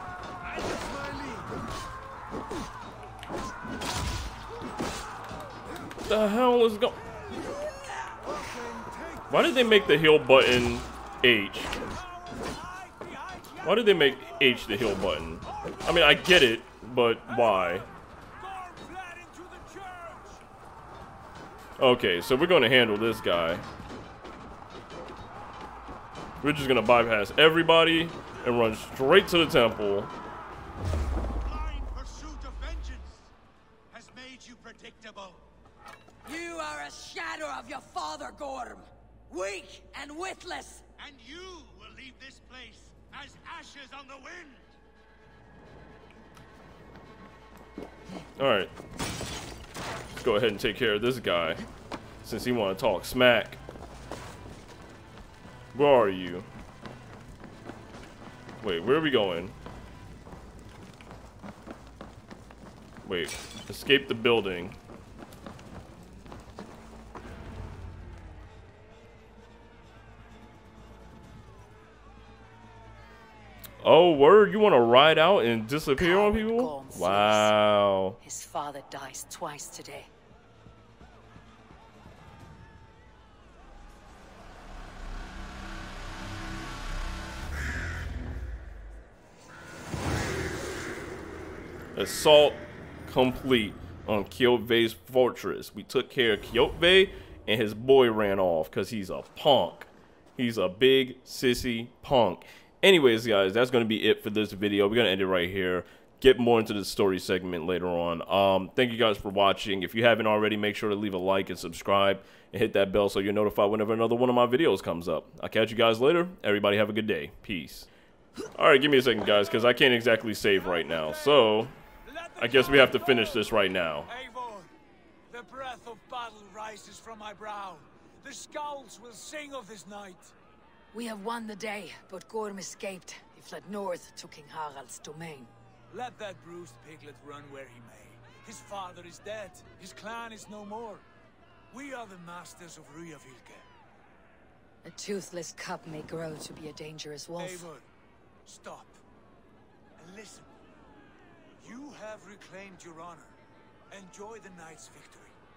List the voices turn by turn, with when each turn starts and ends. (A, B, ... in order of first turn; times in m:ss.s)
0:00.4-0:01.5 A
0:06.0-0:07.0 B
0:08.4-0:09.2 C
0:09.3-0:11.7 B
0:11.8-0:16.5 C
0:13.6-0:17.9 B
0:17.3-0:20.4 C
0:21.8-0:23.6 B
0:26.4-0:30.1 B
0:31.4-0:33.3 A
0:33.9-0:35.4 A
0:36.2-0:40.8 D
0:41.0-0:44.8 A
0:48.4-0:48.7 B
0:50.2-0:51.6 B
0:52.2-0:53.6 B
0:55.7-0:56.5 B
0:58.6-0:59.5 B
1:03.0-1:04.8 B
1:13.8-1:18.2 B
1:15.9-1:17.6 D
1:18.2-1:20.1 D
1:31.9-1:57.9 B
1:58.5-2:01.7 B
2:00.5-2:01.4 C
2:02.0-2:04.7 C
2:02.4-2:04.1 B
2:05.3-2:10.3 C
2:10.9-2:15.5 D
2:15.9-2:21.0 C
2:21.7-2:23.6 C
2:24.8-2:27.7 D
2:27.4-2:27.9 C
2:28.4-2:29.0 C
2:30.0-2:30.6 C
2:31.6-2:33.4 C
2:33.9-2:35.4 C